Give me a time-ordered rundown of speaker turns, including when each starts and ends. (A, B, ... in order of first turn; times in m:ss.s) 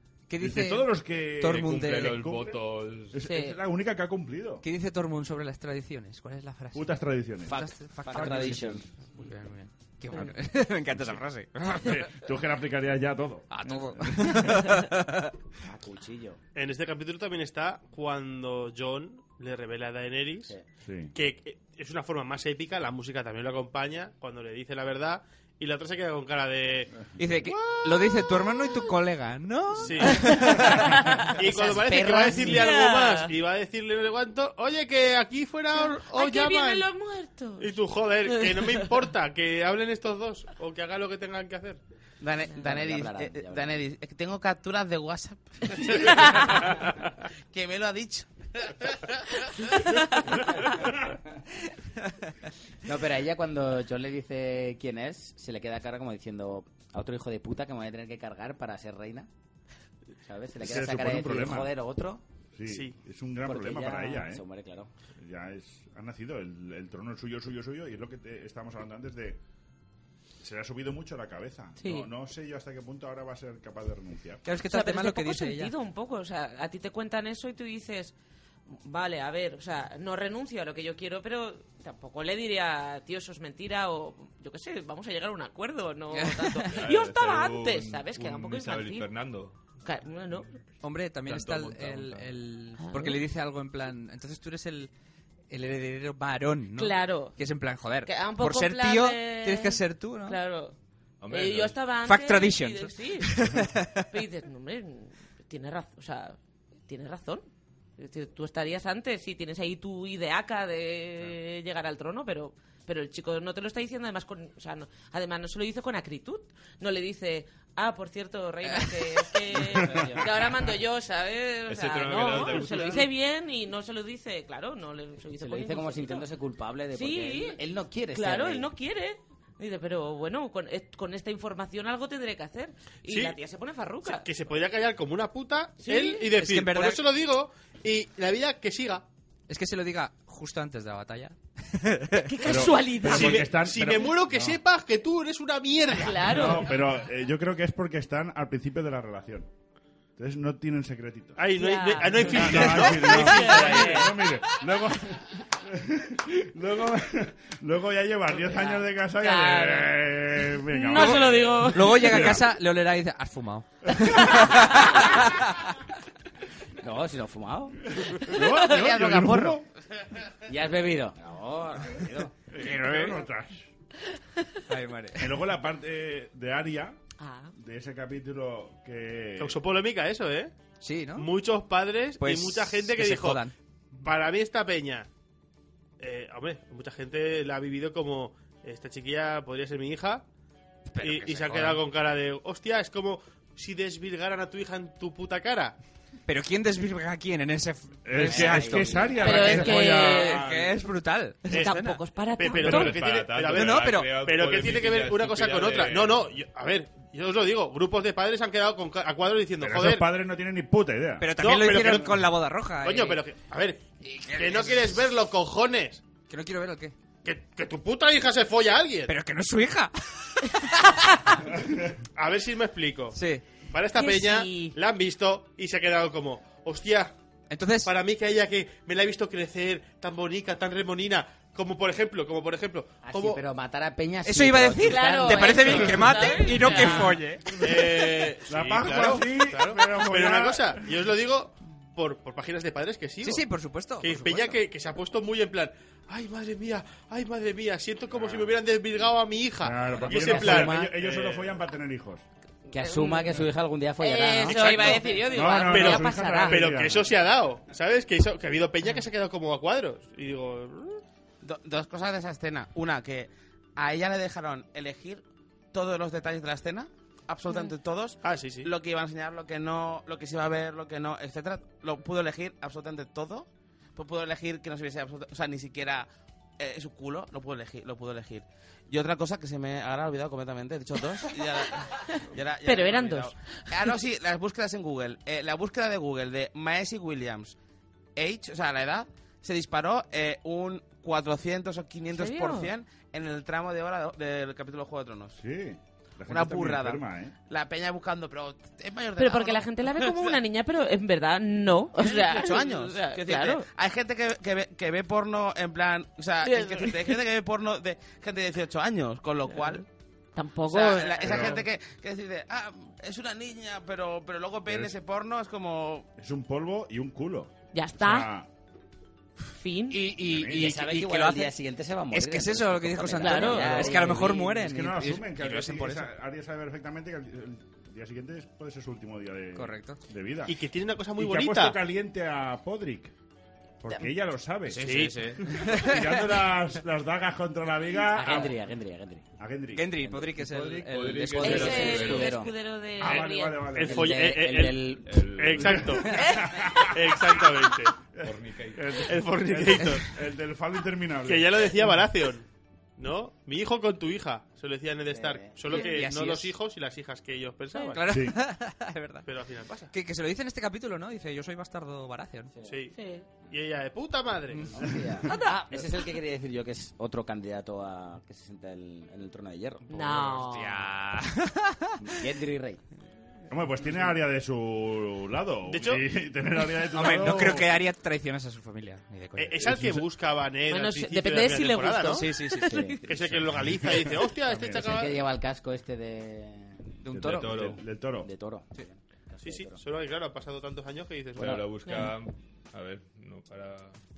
0:00.3-0:02.2 A
0:00.4-0:02.6 B
0:01.5-0:03.2 C
0:03.1-0:04.6 B
0:03.2-0:03.6 D
0:04.6-0:12.1 A
0:06.7-0:07.6 B
0:07.5-0:08.9 E
0:08.2-0:08.6 B
0:10.9-0:11.2 B
0:11.8-0:14.7 B
0:13.5-0:15.3 A
0:15.6-0:16.4 E
0:16.6-0:20.6 F
0:20.8-0:21.1 B
0:21.1-0:26.9 F
0:27.2-0:32.6 A
0:29.8-0:30.4 F
0:30.1-0:33.3 D
0:31.3-0:36.9 F
0:35.7-0:39.0 D
0:37.6-0:41.8 F
0:42.2-0:47.0 G
0:42.5-0:43.8 E
0:45.9-0:46.6 D
0:47.5-0:49.2 G
0:49.6-0:50.4 D
0:52.8-0:59.3 E
1:00.2-1:02.2 E
1:00.6-1:01.7 B
1:02.6-1:04.4 B
1:02.7-1:03.0 F
1:03.4-1:04.9 E
1:05.2-1:09.4 B
1:10.4-1:14.4 B
1:11.8-1:12.1 D
1:14.4-1:15.7 A
1:14.7-1:18.1 D
1:18.7-1:29.1 D
1:26.1-1:26.8 A
1:26.7-1:29.6 C
1:29.8-1:30.6 D
1:30.8-1:34.9 A
1:31.2-1:32.3 C
1:32.8-1:33.2 D
1:35.5-1:40.4 A
1:36.8-1:37.4 D
1:38.0-1:40.8 D
1:41.2-1:41.8 C
1:41.3-1:43.5 D
1:42.0-1:44.1 A
1:44.1-2:06.3 D
1:59.5-2:00.4 E
1:59.6-2:00.2 B
2:01.7-2:03.1 C
2:05.4-2:08.7 E
2:06.9-2:14.3 D
2:13.1-2:13.4 F
2:14.0-2:19.0 F
2:15.8-2:16.3 D
2:16.3-2:17.0 A
2:19.5-2:22.4 A
2:22.2-2:23.5 D
2:22.4-2:24.6 B
2:23.0-2:26.4 F
2:25.9-2:26.8 D
2:26.2-2:29.5 B
2:30.2-2:31.4 B
2:31.4-2:34.1 F
2:31.5-2:34.6 D
2:32.2-2:42.5 B
2:38.5-2:42.4 D
2:40.9-2:45.7 A
2:43.9-2:44.7 B
2:46.8-2:47.8 E
2:47.9-2:49.6 B
2:48.3-2:48.9 D
2:48.6-2:49.6 G
2:50.5-2:52.3 E
2:52.5-2:53.7 B
2:52.6-2:53.2 A
2:54.7-2:55.4 A
2:55.2-2:57.0 B
2:57.2-2:57.5 D
2:57.6-2:59.6 B
2:59.4-3:00.5 F
3:00.8-3:01.3 A
3:01.1-3:03.5 F
3:02.2-3:03.5 A
3:04.0-3:05.1 F
3:06.0-3:10.2 F
3:10.9-3:11.8 A
3:11.0-3:15.8 F
3:16.3-3:22.0 A
3:18.0-3:20.8 B
3:18.2-3:19.5 E
3:19.2-3:20.4 D
3:21.5-3:21.8 F
3:21.5-3:23.0 D
3:22.4-3:30.1 F
3:22.6-3:26.3 C
3:22.6-3:23.3 B
3:23.5-3:24.1 A
3:29.6-3:31.3 B
3:31.2-3:33.2 A
3:31.4-3:32.3 F
3:32.8-3:33.8 F
3:34.0-3:35.0 A
3:34.3-3:36.0 F
3:36.3-3:36.9 A
3:37.2-3:39.1 F
3:39.1-3:41.4 A
3:41.6-3:41.9 B
3:42.2-3:43.2 F
3:43.1-3:43.4 A
3:43.7-3:47.1 F
3:43.9-3:44.8 D
3:47.5-3:47.9 A
3:47.8-3:53.4 F
3:53.0-3:56.0 E
3:54.2-3:57.4 A
3:54.8-3:57.2 D
3:57.5-4:01.0 B
3:57.6-4:03.5 F
4:03.2-4:04.6 A
4:04.0-4:11.6 F
4:09.6-4:12.2 B
4:10.0-4:10.9 E
4:12.7-4:15.2 E
4:12.7-4:13.5 D
4:14.0-4:16.6 D
4:14.6-4:15.2 F
4:15.2-4:17.1 B
4:15.7-4:21.0 F
4:21.4-4:36.1 G
4:27.5-4:27.7 D
4:28.2-4:28.7 F
4:36.6-4:47.6 G
4:42.0-4:44.0 D
4:48.2-4:55.4 G
4:52.1-4:52.7 D
4:55.4-4:57.3 B
4:56.3-5:00.4 G
4:59.2-5:03.7 D
5:02.0-5:09.8 G
5:06.4-5:07.2 D
5:09.4-5:09.8 D
5:10.3-5:11.6 D
5:10.7-5:16.1 G
5:11.2-5:11.6 B
5:14.6-5:14.9 B
5:16.2-5:18.5 B
5:17.7-5:18.3 D
5:19.4-5:20.0 D
5:19.9-5:21.6 A
5:20.2-5:20.7 B
5:20.5-5:24.5 E
5:22.1-5:26.1 A
5:23.2-5:24.3 D
5:24.3-5:30.6 B
5:29.5-5:30.0 A
5:30.4-5:31.8 F
5:31.2-5:33.1 B
5:33.8-5:34.8 B
5:34.7-5:36.2 A
5:34.7-5:35.3 F
5:35.4-5:38.6 B
5:38.1-5:39.3 E
5:39.4-5:39.9 B
5:39.7-5:42.1 A
5:39.9-5:40.4 E
5:40.4-5:42.4 C
5:41.4-5:42.5 E
5:41.4-5:43.7 D
5:43.0-5:44.2 B
5:43.7-5:46.2 F
5:43.8-5:45.3 E
5:45.0-5:46.0 C
5:45.6-5:51.8 B
5:46.1-5:46.9 D
5:46.9-5:47.9 F
5:48.2-5:49.0 C
5:49.0-5:50.2 F
5:51.2-5:52.4 F
5:53.0-5:58.0 F
5:55.1-5:55.6 E
5:55.7-5:56.5 A
5:55.7-5:56.0 D
5:57.9-5:59.3 A
5:58.1-5:58.4 B
5:59.2-5:59.9 F
5:59.9-6:02.5 A
6:02.5-6:02.8 E
6:02.6-6:03.0 F
6:02.9-6:03.3 D
6:03.5-6:04.9 F
6:04.6-6:10.0 E
6:04.9-6:05.2 B
6:05.3-6:05.6 D
6:09.9-6:10.9 D
6:10.3-6:12.2 A
6:12.0-6:12.8 E
6:13.5-6:17.7 B
6:15.6-6:16.0 F
6:16.9-6:19.7 A
6:19.4-6:22.3 F
6:19.6-6:20.0 B
6:20.7-6:23.1 D
6:22.1-6:22.9 A
6:22.6-6:23.0 E
6:23.0-6:25.2 F
6:23.3-6:24.9 B
6:24.7-6:27.0 E
6:27.0-6:27.5 A
6:27.2-6:28.3 B
6:27.2-6:27.8 C
6:28.2-6:29.8 E
6:29.4-6:31.6 F
6:31.4-6:34.0 C
6:31.8-6:32.1 D